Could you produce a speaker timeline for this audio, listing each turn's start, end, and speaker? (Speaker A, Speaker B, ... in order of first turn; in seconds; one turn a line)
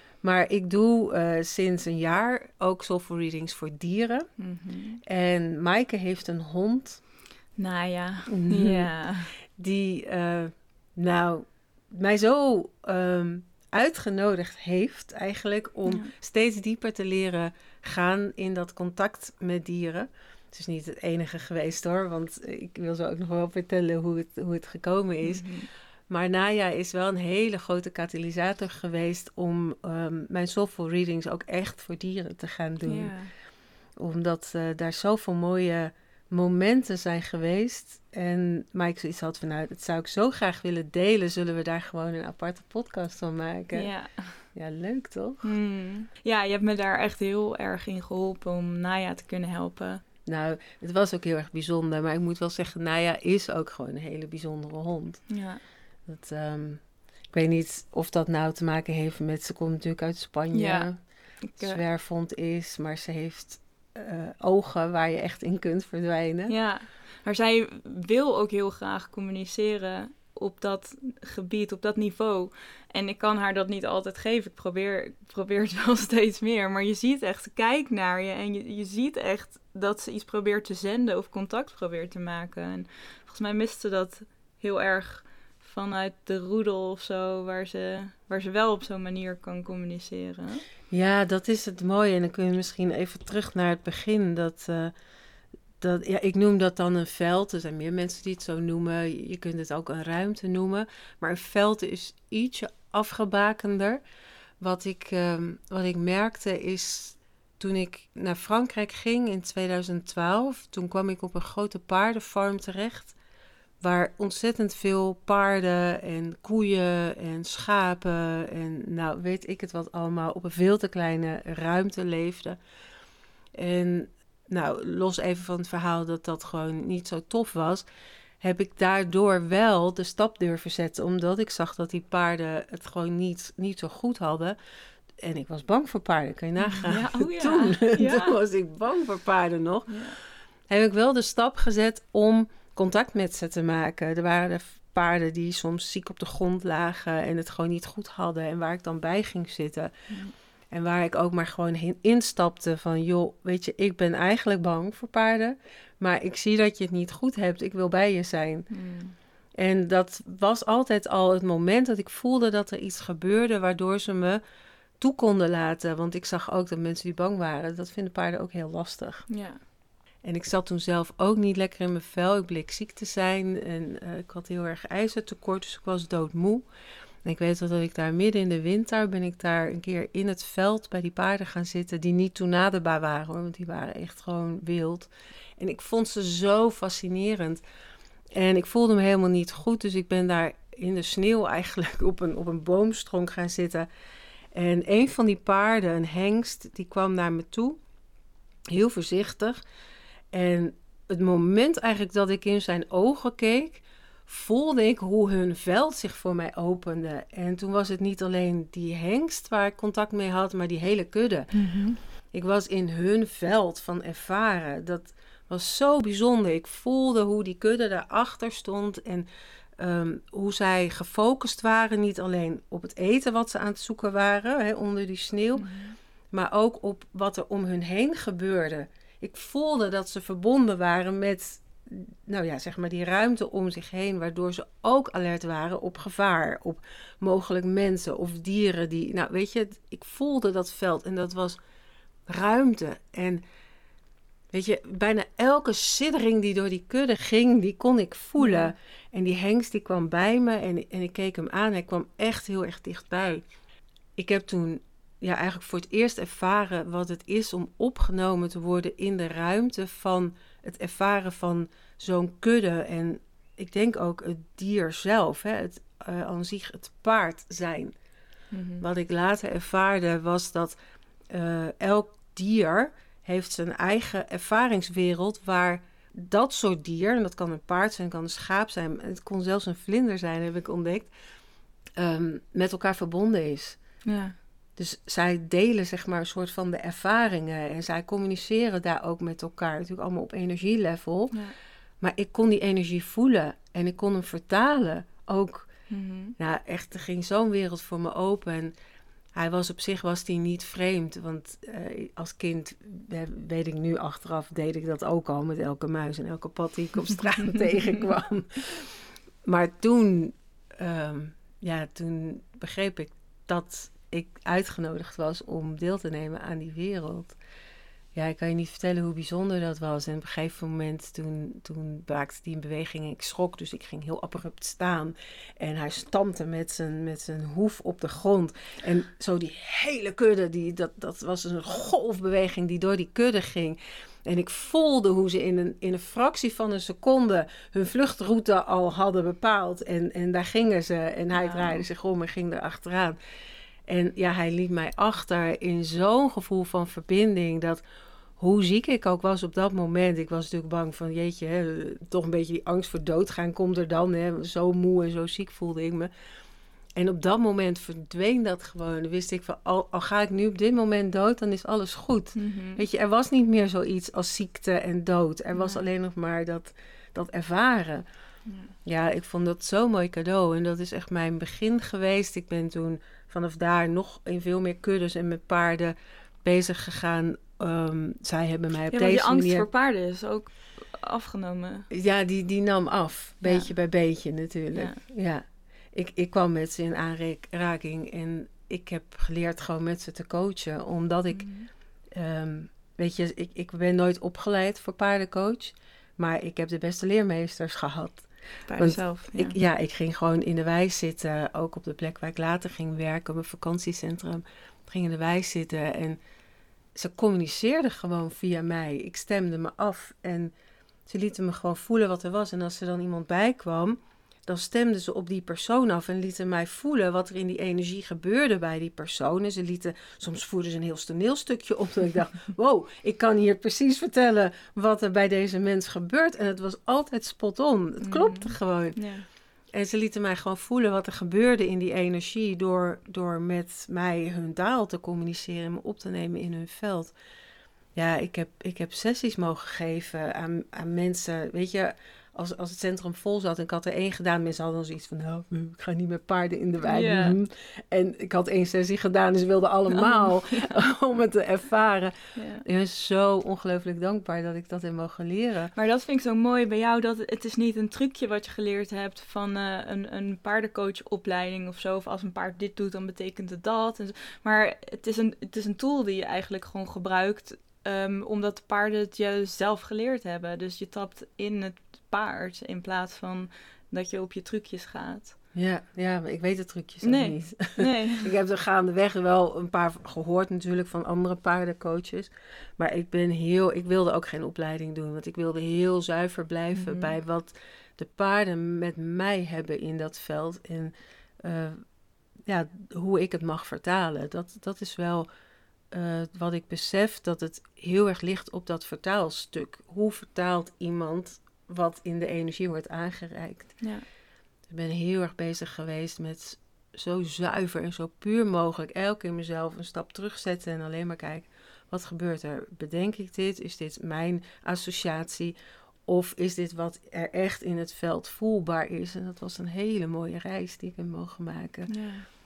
Speaker A: 0.2-4.3
Speaker B: 4.4-5.0
Speaker A: 5.0-7.0
Speaker B: 7.6-9.3
Speaker A: 8.3-8.9
Speaker A: 9.6-25.5
Speaker B: 15.9-16.1
Speaker B: 25.2-25.7
Speaker A: 26.1-33.1
Speaker B: 32.9-33.3
Speaker A: 34.0-43.9
Speaker B: 43.7-44.4
Speaker A: 44.5-45.5
Speaker B: 45.4-50.0
Speaker A: 50.2-55.3
Speaker B: 55.3-55.6
Speaker A: 56.1-61.0
Speaker B: 60.5-60.9
Speaker B: 61.4-61.8
Speaker A: 61.6-66.5
Speaker B: 66.5-90.6
Speaker A: 90.9-94.9
Speaker A: 95.8-104.0
Speaker A: 104.6-113.2
Speaker A: 113.8-122.6
Speaker A: 123.5-127.8
Speaker A: 128.4-134.6
Speaker A: 135.2-140.2
Speaker B: 136.6-138.3
Speaker B: 139.9-140.2
Speaker A: 140.7-149.9
Speaker A: 150.7-158.7
Speaker B: 158.7-159.2
Speaker A: 159.6-164.4
Speaker A: 165.0-169.3
Speaker B: 169.3-169.6
Speaker A: 170.2-176.7
Speaker A: 177.2-187.6
Speaker A: 188.3-193.9
Speaker A: 194.5-197.8
Speaker A: 198.7-199.6
Speaker A: 200.3-211.5
Speaker B: 211.5-212.0
Speaker A: 212.3-219.2
Speaker A: 219.8-225.7
Speaker B: 225.6-225.9
Speaker A: 226.3-241.6
Speaker A: 242.3-243.4
Speaker A: 244.5-253.4
Speaker B: 248.4-248.7
Speaker A: 254.2-267.9
Speaker B: 268.5-268.8
Speaker A: 268.8-270.8
Speaker A: 271.3-281.1
Speaker A: 282.0-283.8
Speaker B: 284.0-284.3
Speaker A: 284.8-291.4
Speaker A: 292.0-295.7
Speaker B: 295.9-296.3
Speaker A: 296.4-298.7
Speaker A: 299.3-308.9
Speaker A: 309.4-317.4
Speaker A: 318.1-343.2
Speaker B: 341.3-341.9
Speaker A: 343.9-347.8
Speaker A: 348.4-356.1
Speaker A: 356.9-368.1
Speaker B: 362.3-362.8
Speaker B: 365.5-365.8
Speaker B: 368.4-368.7
Speaker A: 368.8-379.7
Speaker B: 378.9-381.9
Speaker A: 381.9-391.5
Speaker B: 383.4-383.7
Speaker B: 384.7-385.0
Speaker B: 391.3-391.7
Speaker A: 392.1-406.2
Speaker B: 398.7-399.6
Speaker A: 406.9-410.5
Speaker A: 411.1-429.0
Speaker B: 428.0-429.2
Speaker A: 429.7-437.1
Speaker A: 437.9-455.7
Speaker B: 446.8-447.4
Speaker B: 449.9-450.8
Speaker B: 452.4-452.6
Speaker B: 455.7-475.3
Speaker A: 475.5-491.8
Speaker B: 477.0-478.3
Speaker B: 486.7-487.1
Speaker A: 492.4-495.3
Speaker A: 495.9-503.8
Speaker A: 504.7-515.5
Speaker A: 516.0-521.9
Speaker B: 521.9-522.3